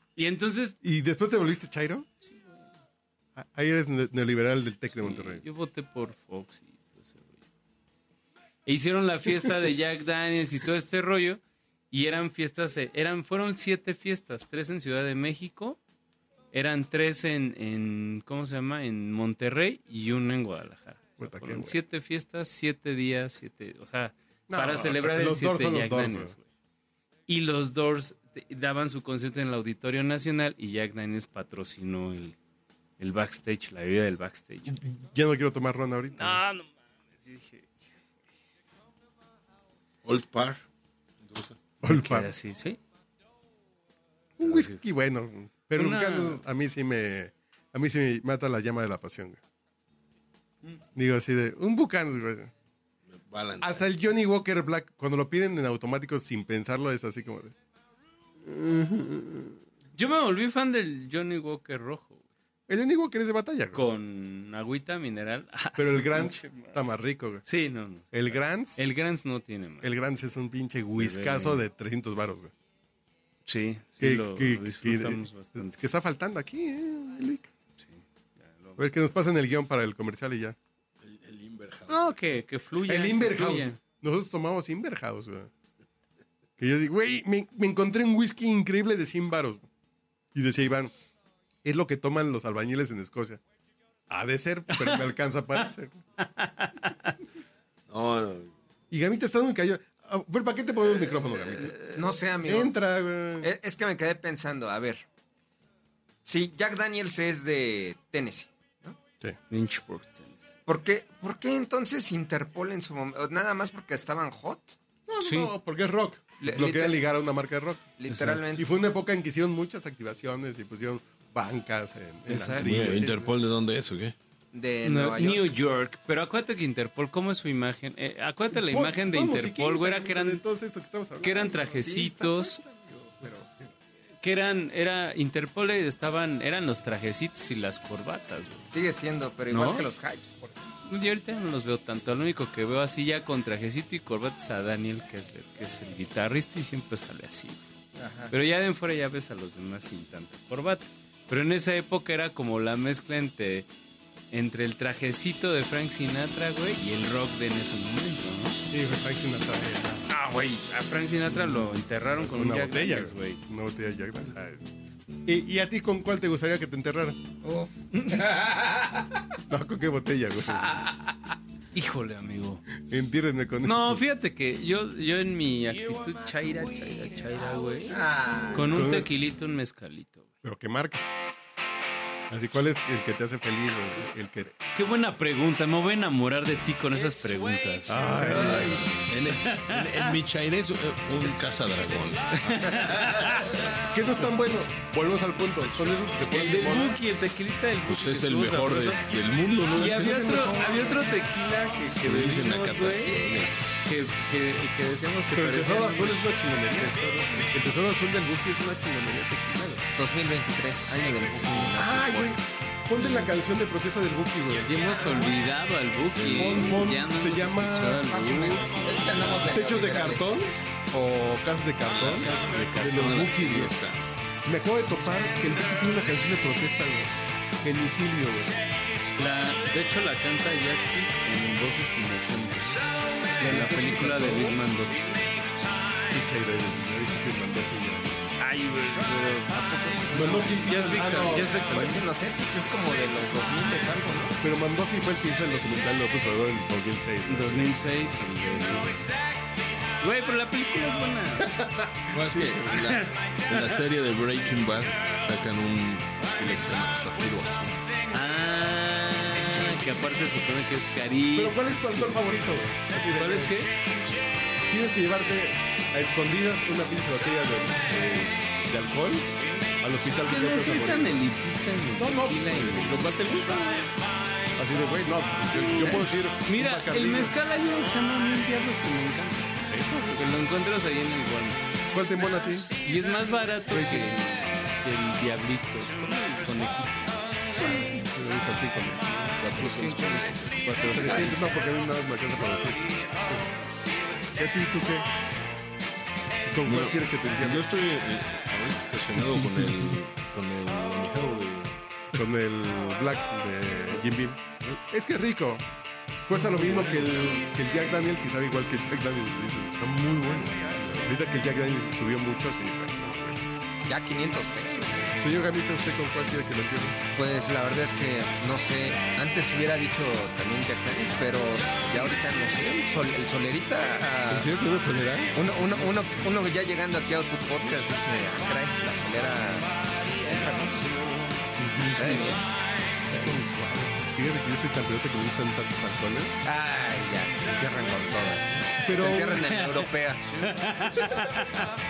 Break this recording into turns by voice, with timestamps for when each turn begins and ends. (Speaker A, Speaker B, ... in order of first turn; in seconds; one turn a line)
Speaker A: 0.2-0.8
Speaker B: 0.8-2.1
Speaker A: 2.2-2.7
Speaker B: 3.4-5.4
Speaker A: 5.0-7.4
Speaker A: 8.7-15.8
Speaker A: 16.5-26.4
Speaker B: 21.2-21.8
Speaker B: 24.5-26.4
Speaker A: 27.3-32.4
Speaker A: 33.0-34.8
Speaker B: 34.8-36.4
Speaker A: 36.2-37.7
Speaker C: 40.0-40.6
Speaker C: 41.2-41.6
Speaker B: 41.8-42.3
Speaker A: 41.9-42.8
Speaker B: 44.4-49.4
Speaker A: 44.4-44.8
Speaker A: 45.7-46.4
Speaker B: 51.0-52.5
Speaker C: 53.1-53.9
Speaker B: 53.6-57.5
Speaker B: 58.4-59.6
Speaker A: 60.0-62.2
Speaker B: 62.7-63.9
Speaker A: 63.7-66.9
Speaker B: 65.8-67.5
Speaker A: 67.5-69.9
Speaker B: 68.1-68.8
Speaker B: 69.8-72.5
Speaker A: 71.0-71.6
Speaker A: 73.5-75.9
Speaker B: 74.0-77.5
Speaker A: 77.8-78.9
Speaker B: 78.8-80.6
Speaker C: 81.0-82.1
Speaker A: 81.9-83.8
Speaker B: 82.9-85.5
Speaker B: 86.6-89.7
Speaker B: 90.3-90.9
Speaker B: 91.6-93.4
Speaker B: 94.1-96.0
Speaker A: 94.7-95.1
Speaker A: 96.2-97.2
Speaker C: 97.9-98.5
Speaker B: 98.9-103.5
Speaker D: 101.9-102.7
Speaker D: 103.4-105.1
Speaker D: 106.3-108.5
Speaker B: 108.8-109.4
Speaker A: 109.5-110.6
Speaker D: 110.7-114.8
Speaker B: 115.1-123.3
Speaker A: 115.2-115.5
Speaker D: 116.4-117.0
Speaker D: 118.0-118.7
Speaker A: 122.3-122.7
Speaker C: 122.6-124.2
Speaker D: 124.5-125.5
Speaker A: 124.8-130.4
Speaker B: 128.5-131.6
Speaker A: 131.2-132.6
Speaker D: 131.5-133.5
Speaker A: 134.2-138.7
Speaker D: 138.7-140.7
Speaker A: 139.5-139.9
Speaker A: 140.9-147.7
Speaker D: 148.0-148.3
Speaker A: 148.3-153.7
Speaker A: 154.3-158.7
Speaker B: 158.7-160.0
Speaker A: 160.1-163.4
Speaker B: 162.2-164.4
Speaker A: 164.2-164.6
Speaker B: 165.3-167.2
Speaker D: 167.4-169.1
Speaker A: 167.9-168.2
Speaker B: 169.5-170.8
Speaker D: 170.6-171.0
Speaker A: 171.7-172.6
Speaker B: 172.8-174.0
Speaker A: 173.6-178.0
Speaker D: 177.9-178.9
Speaker A: 178.5-180.3
Speaker B: 178.6-179.1
Speaker B: 180.4-181.0
Speaker B: 182.3-184.5
Speaker A: 184.5-188.8
Speaker B: 187.9-188.8
Speaker C: 188.2-193.0
Speaker A: 189.5-190.1
Speaker A: 192.3-193.6
Speaker B: 193.8-197.0
Speaker A: 196.3-199.1
Speaker C: 197.8-200.4
Speaker A: 199.7-203.2
Speaker B: 199.8-201.1
Speaker C: 202.0-203.6
Speaker A: 203.8-207.5
Speaker B: 205.3-209.8
Speaker D: 209.9-212.5
Speaker B: 211.5-215.3
Speaker A: 214.6-219.3
Speaker C: 216.1-216.7
Speaker B: 216.3-218.1
Speaker D: 218.0-220.2
Speaker B: 219.5-223.8
Speaker C: 221.9-224.0
Speaker A: 222.0-223.2
Speaker B: 224.4-228.6
Speaker A: 229.2-232.8
Speaker A: 233.4-235.2
Speaker B: 233.4-234.6
Speaker B: 236.1-238.3
Speaker A: 238.4-242.0
Speaker B: 240.1-241.7
Speaker D: 241.6-244.4
Speaker B: 244.4-247.9
Speaker A: 247.3-249.1
Speaker A: 250.0-251.5
Speaker B: 251.6-252.7
Speaker C: 252.1-257.8
Speaker A: 258.1-262.3
Speaker B: 261.3-263.7
Speaker A: 263.1-263.7
Speaker B: 264.7-271.2
Speaker A: 270.1-273.7
Speaker B: 272.0-273.9
Speaker B: 274.6-277.6
Speaker D: 275.8-276.1
Speaker A: 276.0-281.6
Speaker B: 281.9-282.7
Speaker A: 282.8-288.1
Speaker B: 283.7-284.1
Speaker B: 287.6-289.5
Speaker C: 289.4-291.3
Speaker A: 289.6-291.5
Speaker B: 290.9-293.5
Speaker B: 294.3-295.1
Speaker B: 296.4-297.7
Speaker C: 296.6-301.8
Speaker B: 302.1-305.7
Speaker B: 306.3-309.9
Speaker C: 306.6-307.6
Speaker C: 309.8-311.1
Speaker B: 310.7-313.4
Speaker D: 313.9-315.2
Speaker B: 315.2-317.0
Speaker D: 317.1-324.5
Speaker B: 324.3-325.4
Speaker D: 325.3-331.2
Speaker D: 331.9-332.5
Speaker D: 333.1-333.4
Speaker B: 333.2-336.3
Speaker D: 336.4-340.5
Speaker B: 338.8-339.5
Speaker A: 340.4-341.6